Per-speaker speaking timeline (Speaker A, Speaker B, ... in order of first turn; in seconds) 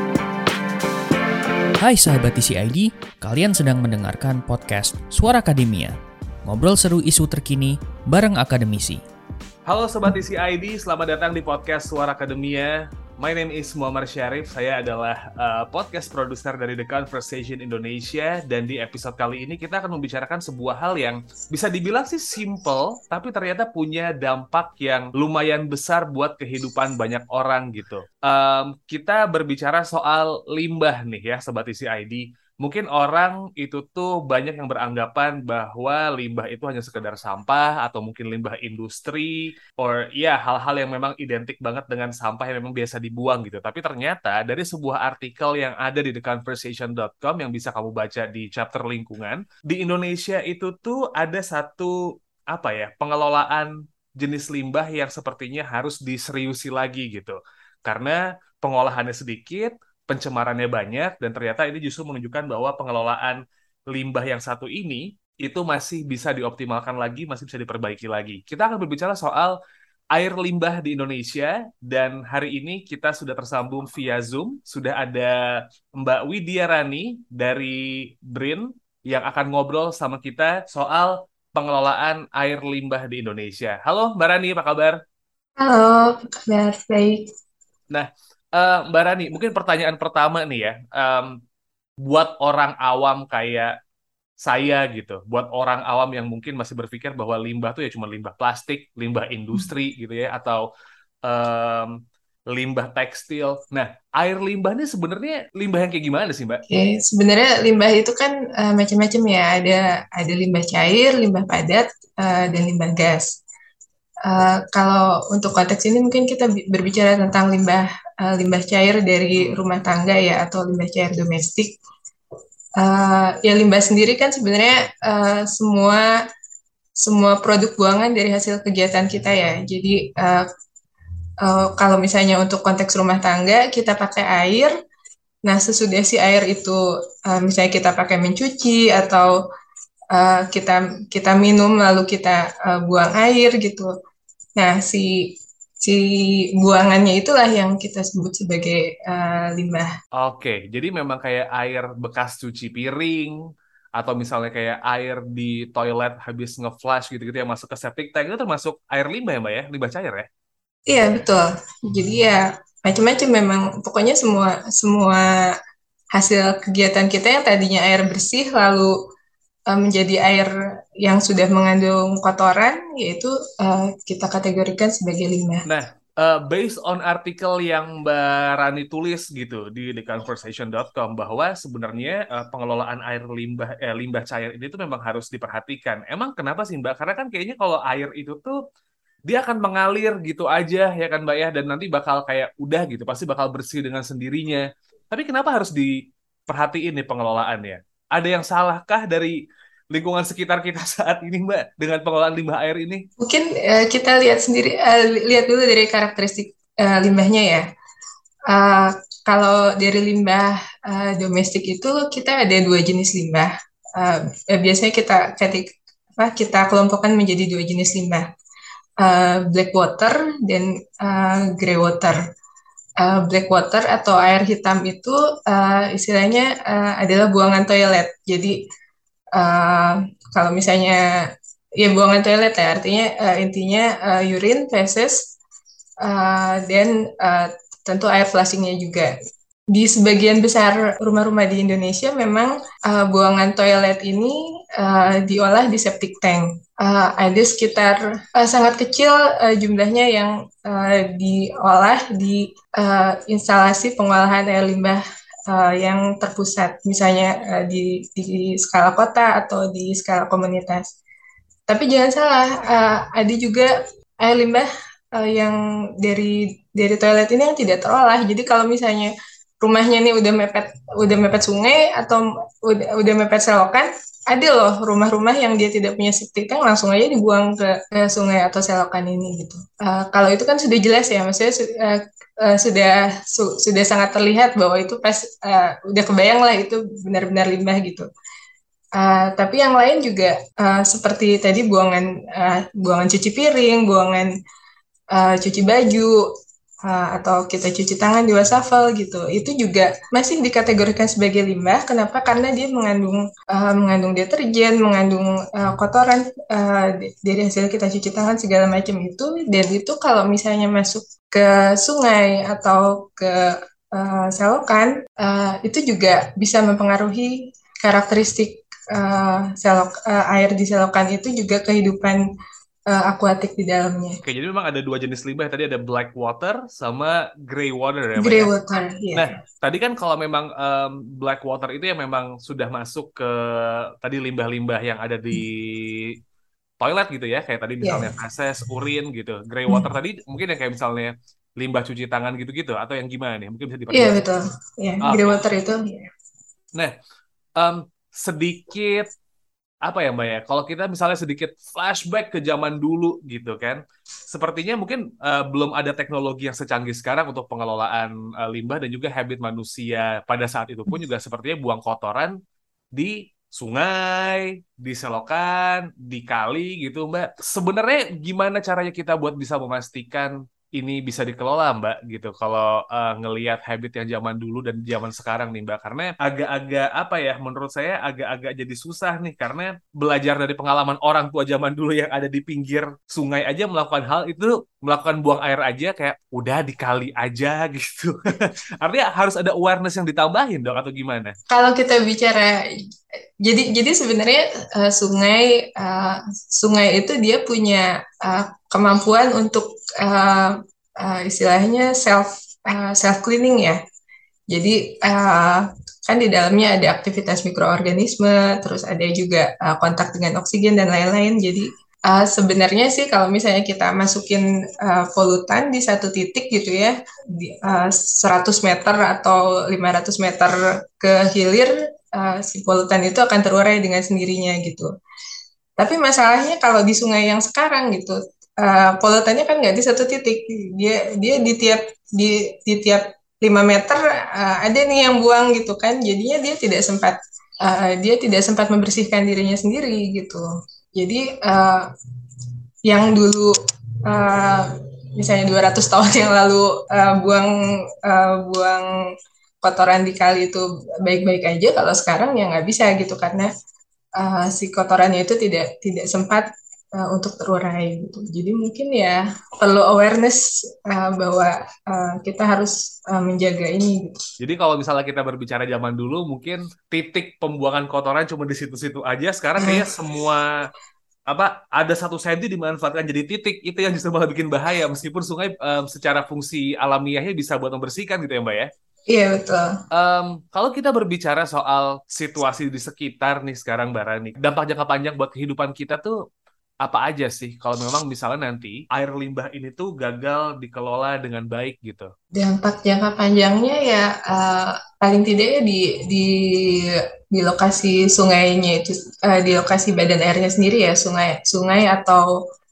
Speaker A: 1.8-9.0
Speaker B: 9.7-51.9, 52.5-63.4, 63.9-69.5, 70.1-75.3, 76.0-77.8, 78.3-85.0, 87.9-91.3, 92.0-93.7, 94.4-100.6, 101.3-101.9, 102.5-106.6, 119.4-119.7, 150.2-153.3, 154.0-160.3, 175.7-188.6, 189.3-195.9, 196.5-199.3, 199.9-203.0, 324.2-328.5, 329.1-336.1, 336.8-344.2, 345.0-345.4, 347.6-349.1, 349.9-362.3, 363.0-388.1, 388.8-391.3, 464.4-470.5, 471.3-478.7, 479.9-486.1, 486.8-492.1
Speaker C: 85.6-87.3, 106.7-113.3, 114.3-121.8, 122.8-126.0, 127.0-130.4, 131.4-134.7, 135.5-139.3, 140.1-143.9, 144.6-145.2, 146.6-149.9, 160.9-165.3, 166.1-168.9, 169.7-170.5, 171.0-175.7, 203.2-207.6, 208.5-215.7, 216.2-218.2, 219.0-222.2, 223.0-228.5, 229.4-231.0, 231.8-235.2, 236.0-239.1, 239.7-260.9, 261.7-288.1, 289.0-294.3, 295.1-296.2, 296.9-322.2, 322.9-324.1, 328.2-329.3, 337.8-338.1, 343.9-346.1, 391.5-392.6, 393.4-403.8, 404.5-424.9, 425.8-440.4, 441.0-441.9, 442.9-443.5, 444.1-447.5, 448.1-448.9, 449.6-453.5, 454.2-464.2, 469.6-469.9, 479.1-479.7, 492.3-496.3, 497.3-502.3